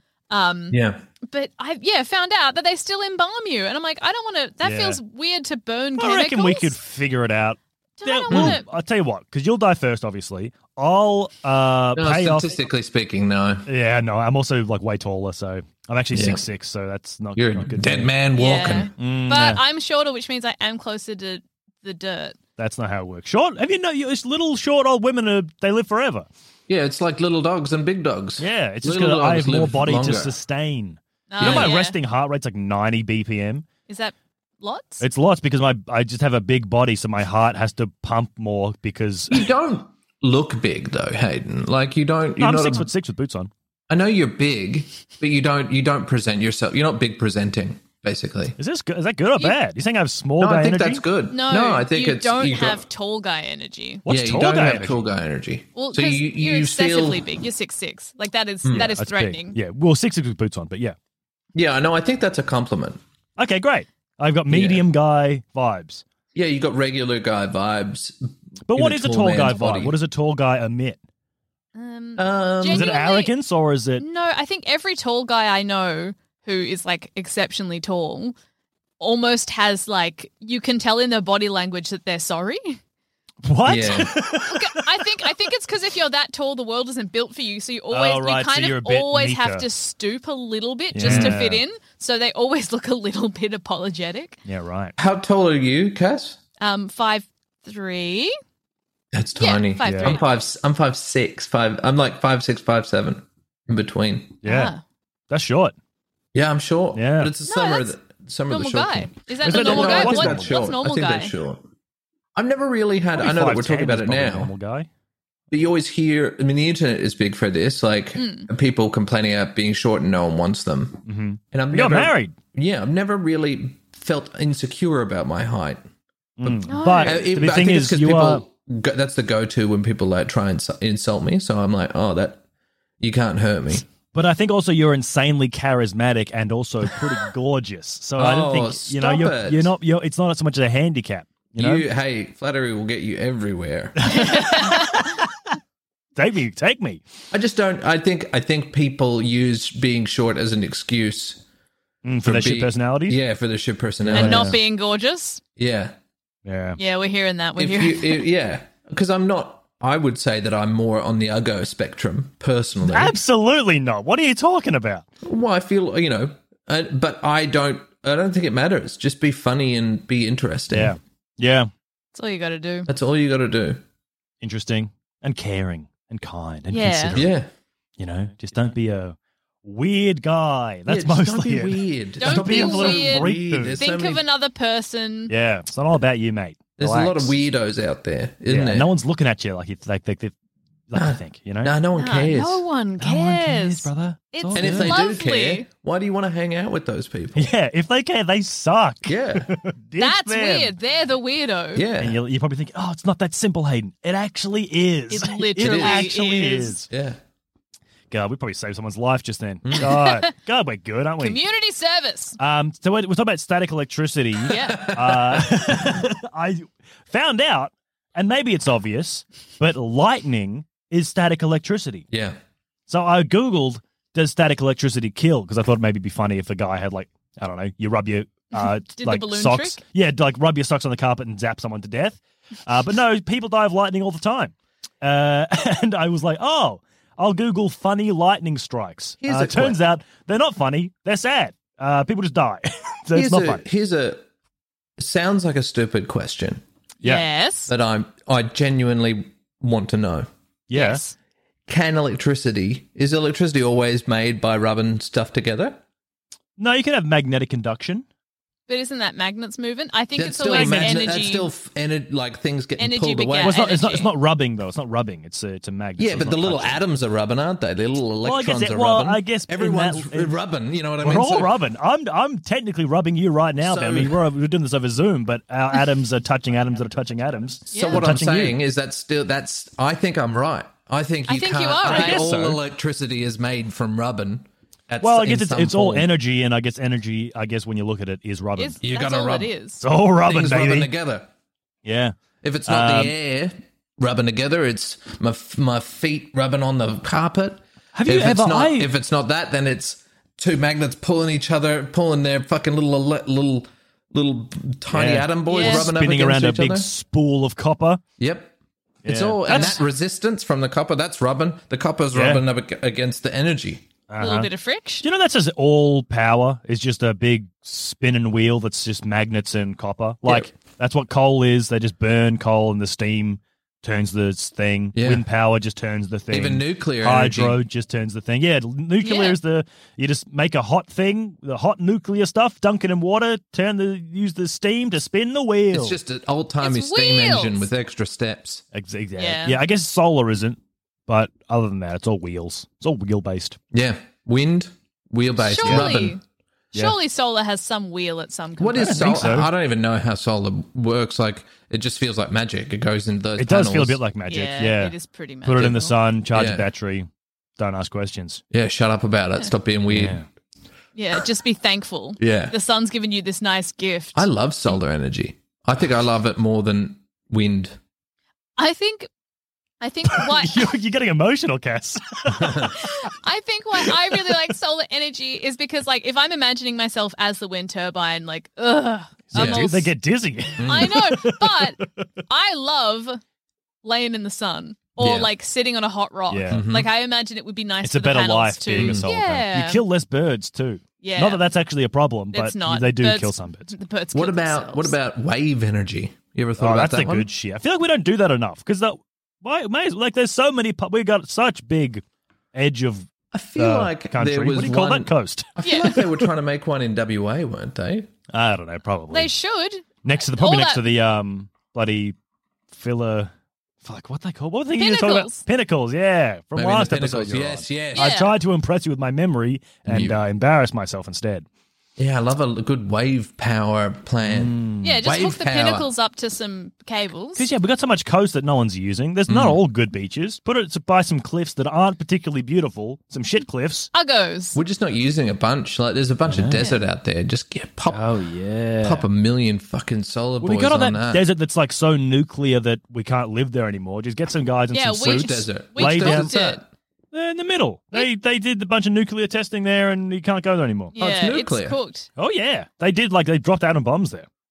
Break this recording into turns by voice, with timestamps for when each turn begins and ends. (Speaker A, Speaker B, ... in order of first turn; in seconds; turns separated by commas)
Speaker A: 0.3-6.7, Speaker B: 0.7-1.0, Speaker C: 4.6-5.0, Speaker C: 6.0-12.6, Speaker A: 8.0-8.7, Speaker B: 8.3-8.6, Speaker B: 11.9-13.7, Speaker C: 13.7-18.1, Speaker B: 16.1-16.4, Speaker B: 17.4-18.9, Speaker A: 18.4-22.4, Speaker C: 19.0-19.6, Speaker C: 22.6-26.3, Speaker B: 26.7-30.3, Speaker C: 28.4-33.6, Speaker A: 31.3-31.9, Speaker B: 31.4-31.7, Speaker A: 33.9-35.0, Speaker C: 35.0-39.5, Speaker B: 39.3-42.9, Speaker C: 42.4-43.5, Speaker B: 43.9-48.5, Speaker C: 48.6-51.0, Speaker B: 50.4-52.8, Speaker A: 51.3-54.0, Speaker C: 54.0-55.0, Speaker B: 54.1-57.2, Speaker A: 55.7-59.6, Speaker B: 58.6-58.9, Speaker C: 58.7-61.0, Speaker B: 61.5-63.0, Speaker C: 63.4-66.0, Speaker B: 64.5-64.8, Speaker B: 66.3-69.9, Speaker C: 68.7-71.0, Speaker A: 71.7-73.3, Speaker B: 72.2-73.0, Speaker C: 72.7-74.0, Speaker A: 74.0-78.3, Speaker A: 79.0-82.8, Speaker C: 83.4-84.6, Speaker B: 83.6-84.1, Speaker A: 84.4-94.4, Speaker C: 87.9-89.6, Speaker C: 90.9-91.6, Speaker B: 91.0-91.4, Speaker C: 94.5-95.0, Speaker B: 95.0-96.4, Speaker A: 96.6-98.3, Speaker B: 99.1-104.4, Speaker A: 99.4-100.2, Speaker C: 99.8-100.2, Speaker C: 104.4-104.7, Speaker A: 104.4-104.8, Speaker C: 105.3-105.7, Speaker B: 106.3-111.6, Speaker C: 106.9-107.3, Speaker A: 107.5-107.9, Speaker A: 108.5-111.3, Speaker C: 109.4-110.5, Speaker B: 112.3-114.5, Speaker C: 113.2-114.9, Speaker B: 115.5-125.8, Speaker A: 118.2-118.5, Speaker C: 121.0-122.3, Speaker C: 126.4-128.4, Speaker B: 126.4-132.4, Speaker A: 126.7-127.3, Speaker B: 133.0-133.8, Speaker C: 134.1-141.8, Speaker B: 138.2-139.7, Speaker B: 141.6-144.2, Speaker C: 144.0-145.5, Speaker A: 144.0-145.1, Speaker C: 146.2-147.0, Speaker B: 147.3-151.4, Speaker C: 152.0-153.2, Speaker B: 152.2-154.6, Speaker C: 154.1-154.6, Speaker A: 154.1-155.4, Speaker B: 155.6-155.9, Speaker C: 156.4-156.8, Speaker A: 156.8-158.3, Speaker B: 157.6-163.2, Speaker C: 162.8-165.0, Speaker B: 165.2-171.0, Speaker C: 170.7-171.7, Speaker A: 172.1-172.9, Speaker B: 172.9-173.8, Speaker C: 174.4-177.4, Speaker A: 176.7-177.1, Speaker B: 177.1-177.5, Speaker C: 178.0-183.8, Speaker B: 180.9-184.2, Speaker A: 182.2-185.3, Speaker C: 185.3-187.3, Speaker B: 186.8-188.9, Speaker C: 188.5-190.3, Speaker C: 190.9-191.7, Speaker B: 190.9-192.6, Speaker A: 191.9-195.7, Speaker C: 193.0-195.0, Speaker B: 194.5-197.5, Speaker C: 197.3-200.7, Speaker B: 199.1-199.5, Speaker A: 200.0-201.8, Speaker B: 201.7-202.2, Speaker C: 202.0-206.9, Speaker A: 205.1-206.8, Speaker B: 205.6-206.1, Speaker B: 206.9-207.2, Speaker C: 208.1-211.4, Speaker B: 209.6-209.9, Speaker A: 209.8-210.2, Speaker A: 211.2-212.4, Speaker C: 212.4-222.1, Speaker A: 214.5-214.9, Speaker B: 214.6-215.5, Speaker B: 222.1-222.4, Speaker C: 222.9-243.6, Speaker A: 228.5-229.8, Speaker B: 239.2-239.8, Speaker B: 243.1-244.2, Speaker B: 245.0-246.6, Speaker A: 247.0-247.7, Speaker B: 247.7-250.3, Speaker C: 250.7-251.0, Speaker A: 250.7-251.1, Speaker B: 251.7-255.8, Speaker C: 256.6-258.0, Speaker A: 258.7-261.5, Speaker B: 260.2-263.5, Speaker C: 260.5-261.1, Speaker A: 262.8-264.1, Speaker C: 263.4-266.8, Speaker B: 266.0-271.5, Speaker C: 268.2-270.4, Speaker C: 271.0-278.6, Speaker B: 273.6-274.2, Speaker A: 277.7-278.1, Speaker B: 277.7-286.1, Speaker A: 281.3-282.2, Speaker C: 281.8-282.6, Speaker C: 285.0-288.8, Speaker A: 288.6-289.8, Speaker B: 288.8-289.5, Speaker C: 289.8-290.9, Speaker B: 290.1-291.3, Speaker C: 291.8-293.1, Speaker B: 292.4-306.9, Speaker C: 297.9-298.9, Speaker C: 304.9-308.0, Speaker A: 305.5-305.9, Speaker B: 308.2-308.5, Speaker B: 309.0-313.8, Speaker C: 309.0-309.8, Speaker C: 312.1-312.4, Speaker C: 314.1-314.5, Speaker A: 314.2-315.0, Speaker C: 315.0-336.0, Speaker B: 320.2-320.5, Speaker B: 324.9-325.2, Speaker B: 326.3-327.6, Speaker A: 329.0-329.4, Speaker B: 335.7-338.6, Speaker A: 336.6-337.7, Speaker C: 338.7-343.6, Speaker A: 339.2-339.6, Speaker B: 343.7-346.2, Speaker A: 345.4-346.2, Speaker C: 345.6-345.9, Speaker A: 346.7-349.4, Speaker B: 348.6-354.0, Speaker C: 348.8-349.5, Speaker C: 353.4-354.9, Speaker A: 354.3-355.9, Speaker C: 355.4-358.4, Speaker B: 356.3-356.6, Speaker B: 358.5-360.2, Speaker C: 359.9-360.2, Speaker A: 360.9-364.3, Speaker B: 362.2-362.5, Speaker B: 364.1-367.8, Speaker A: 368.6-369.1, Speaker A: 369.8-370.7, Speaker C: 370.1-372.9, Speaker B: 372.3-372.7, Speaker A: 372.7-379.9, Speaker C: 379.3-382.1, Speaker B: 379.3-379.7, Speaker B: 380.6-380.9, Speaker A: 380.6-383.2, Speaker A: 383.8-389.8, Speaker B: 385.0-385.3, Speaker C: 386.3-386.6, Speaker B: 386.5-386.9, Speaker C: 387.8-393.7, Speaker B: 388.7-389.0, Speaker A: 391.0-391.4, Speaker A: 392.3-394.9, Speaker B: 394.1-397.3, Speaker C: 396.6-402.0, Speaker C: 402.5-406.2, Speaker B: 403.3-408.1, Speaker A: 405.6-406.0, Speaker C: 408.3-409.3, Speaker A: 409.1-410.9, Speaker C: 410.0-412.1, Speaker C: 412.7-413.3, Speaker C: 413.8-421.4, Speaker A: 414.8-415.4, Speaker B: 416.5-418.1, Speaker A: 417.9-418.3, Speaker B: 419.9-420.2, Speaker B: 422.0-425.9, Speaker C: 424.2-425.0, Speaker A: 424.8-427.4, Speaker C: 427.4-433.9, Speaker B: 429.3-429.6, Speaker A: 433.9-434.6, Speaker B: 434.6-438.1, Speaker C: 436.3-436.6, Speaker C: 437.9-439.1, Speaker B: 438.8-441.2, Speaker C: 440.4-446.4, Speaker A: 444.7-446.6, Speaker B: 445.1-446.6, Speaker C: 447.1-450.9, Speaker A: 450.9-452.1, Speaker B: 451.0-451.8, Speaker C: 452.2-454.3